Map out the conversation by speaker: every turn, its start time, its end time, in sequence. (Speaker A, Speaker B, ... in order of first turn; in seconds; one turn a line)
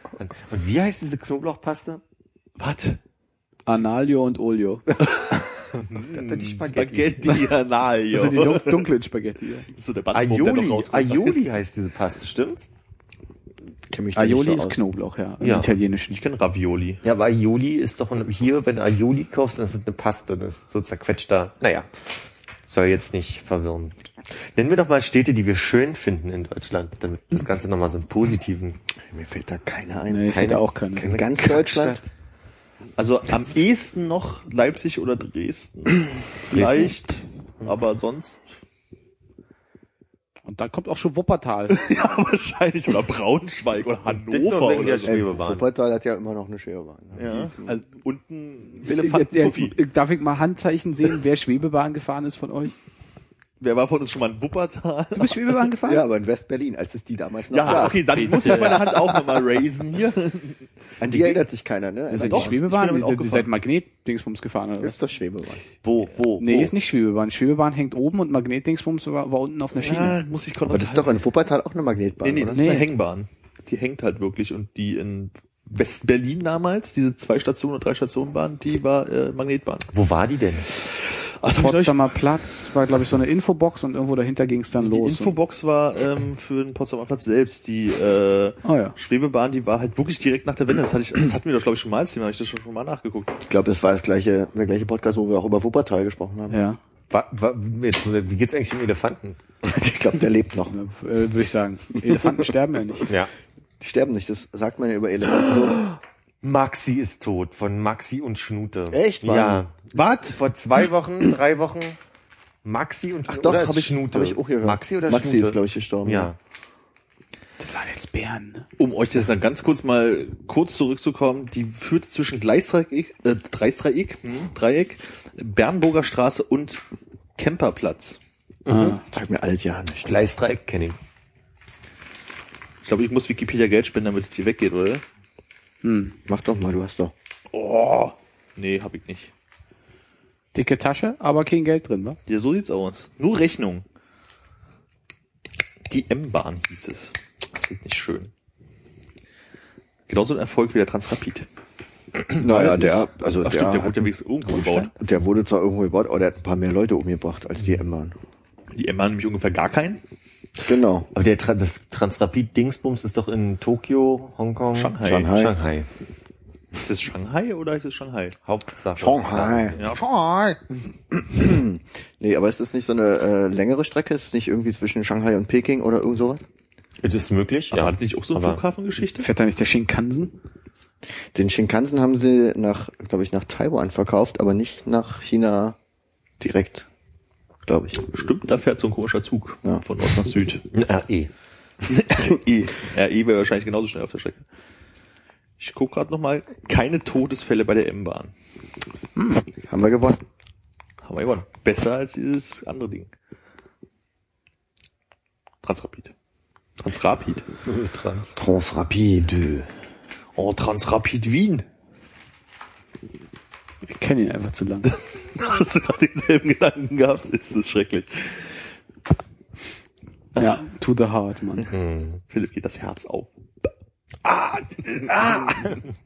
Speaker A: 0.2-2.0
Speaker B: 2.6-3.0
Speaker C: 3.7-5.1
Speaker B: 5.7-8.9
Speaker A: 6.0-7.4
Speaker C: 8.1-9.7
Speaker B: 9.7-11.4
Speaker A: 10.1-12.7
Speaker D: 13.9-14.8
Speaker C: 14.2-16.2
Speaker A: 15.4-15.7
Speaker B: 16.1-17.0
Speaker A: 17.0-21.9
Speaker A: 22.7-23.9
Speaker A: 24.5-28.8
Speaker D: 29.1-32.0
Speaker C: 30.1-31.1
Speaker A: 30.3-32.1
Speaker B: 33.0-38.5
Speaker A: 36.5-36.9
Speaker C: 40.5-41.8
Speaker B: 41.7-45.2
Speaker A: 44.3-45.7
Speaker D: 45.0-47.7
Speaker B: 47.2-49.8
Speaker C: 48.8-52.8
Speaker B: 53.6-55.7
Speaker C: 55.1-56.0
Speaker D: 55.8-59.1
Speaker B: 57.5-61.4
Speaker C: 57.7-58.9
Speaker D: 61.0-62.6
Speaker C: 62.1-65.0
Speaker B: 62.2-63.5
Speaker D: 64.8-65.7
Speaker A: 65.8-66.7
Speaker C: 66.4-70.2
Speaker B: 69.8-71.2
Speaker D: 70.7-72.7
Speaker B: 72.2-79.9
Speaker C: 72.5-72.9
Speaker A: 79.9-80.7
Speaker B: 80.8-82.1
Speaker C: 81.6-85.3
Speaker B: 84.8-93.3
Speaker C: 88.6-89.0
Speaker D: 93.4-96.6
Speaker C: 96.5-96.8
Speaker A: 97.1-99.4
Speaker D: 99.6-100.8
Speaker C: 100.7-103.1
Speaker D: 103.8-105.9
Speaker A: 106.4-112.0
Speaker D: 108.9-109.7
Speaker B: 110.0-110.3
Speaker A: 112.6-116.4
Speaker D: 113.3-116.3
Speaker C: 117.6-118.7
Speaker B: 118.8-126.8
Speaker B: 127.4-128.2
Speaker A: 128.7-129.0
Speaker C: 128.7-129.0
Speaker D: 129.1-130.2
Speaker A: 130.0-131.0
Speaker B: 132.8-135.0
Speaker C: 135.8-136.2
Speaker D: 136.3-137.1
Speaker B: 137.5-139.3
Speaker C: 140.5-142.2
Speaker B: 142.3-143.8
Speaker B: 145.9-148.3
Speaker B: 150.1-151.5
Speaker D: 152.4-154.1
Speaker C: 152.5-152.8
Speaker B: 152.6-154.9
Speaker C: 154.5-154.9
Speaker D: 155.0-158.2
Speaker B: 158.7-160.0
Speaker D: 160.6-161.1
Speaker A: 161.1-165.9
Speaker B: 164.8-165.3
Speaker D: 165.0-165.5
Speaker B: 166.8-168.4
Speaker A: 168.4-169.9
Speaker D: 169.0-169.8
Speaker B: 169.8-170.6
Speaker D: 171.1-176.4
Speaker A: 177.0-178.6
Speaker B: 177.7-179.3
Speaker C: 179.2-180.3
Speaker D: 181.3-185.8
Speaker D: 186.4-186.9
Speaker D: 187.7-188.1
Speaker B: 188.1-190.6
Speaker A: 190.7-191.3
Speaker B: 191.9-194.4
Speaker B: 195.6-198.3
Speaker C: 199.2-199.4
Speaker D: 199.7-200.2
Speaker B: 201.0-203.1
Speaker B: 205.6-206.1
Speaker B: 206.8-207.4
Speaker A: 207.7-208.4
Speaker D: 208.4-209.7
Speaker B: 210.4-211.7
Speaker C: 213.8-214.9
Speaker B: 214.9-218.6
Speaker C: 220.4-221.7
Speaker A: 221.7-222.2
Speaker B: 222.3-223.7
Speaker B: 224.9-225.8